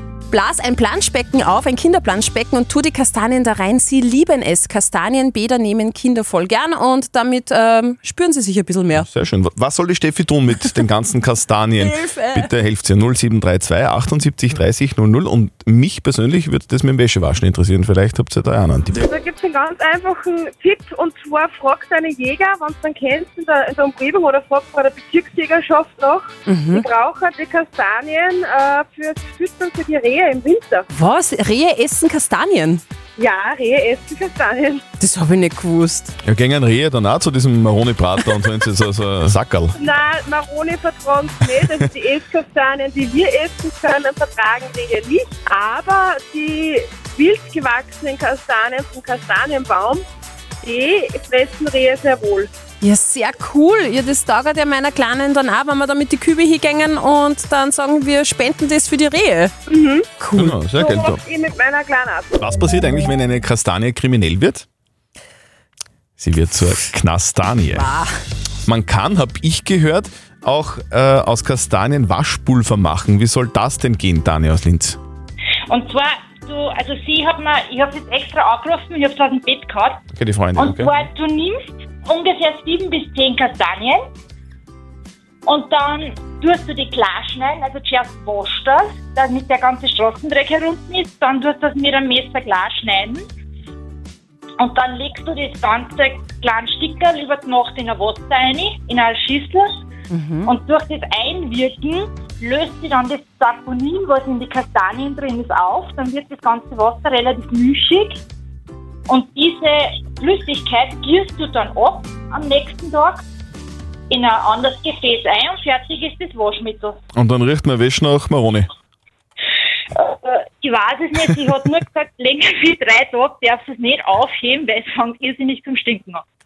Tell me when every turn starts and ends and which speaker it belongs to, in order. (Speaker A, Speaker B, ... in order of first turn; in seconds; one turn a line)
Speaker A: 0.3-9.1
Speaker B: 8.9-19.1
Speaker A: 11.8-12.5
Speaker C: 19.0-30.9
Speaker A: 26.5-26.9
Speaker A: 30.9-32.8
Speaker C: 33.2-34.8
Speaker A: 35.0-36.1
Speaker B: 36.2-39.8
Speaker C: 39.8-50.0
Speaker C: 50.6-52.5
Speaker A: 52.8-59.5
Speaker C: 59.7-62.4
Speaker A: 60.2-60.5
Speaker B: 60.4-61.2
Speaker B: 62.4-64.7
Speaker B: 66.2-67.9
Speaker A: 67.7-68.1
Speaker B: 68.7-75.0
Speaker D: 75.7-80.0
Speaker B: 80.2-80.9
Speaker D: 80.6-84.0
Speaker D: 85.5-93.3
Speaker D: 94.6-99.7
Speaker A: 100.1-100.5
Speaker D: 100.4-108.2
Speaker D: 109.1-113.2
Speaker D: 114.1-117.0
Speaker B: 117.2-118.7
Speaker D: 120.0-126.2
Speaker B: 121.2-121.5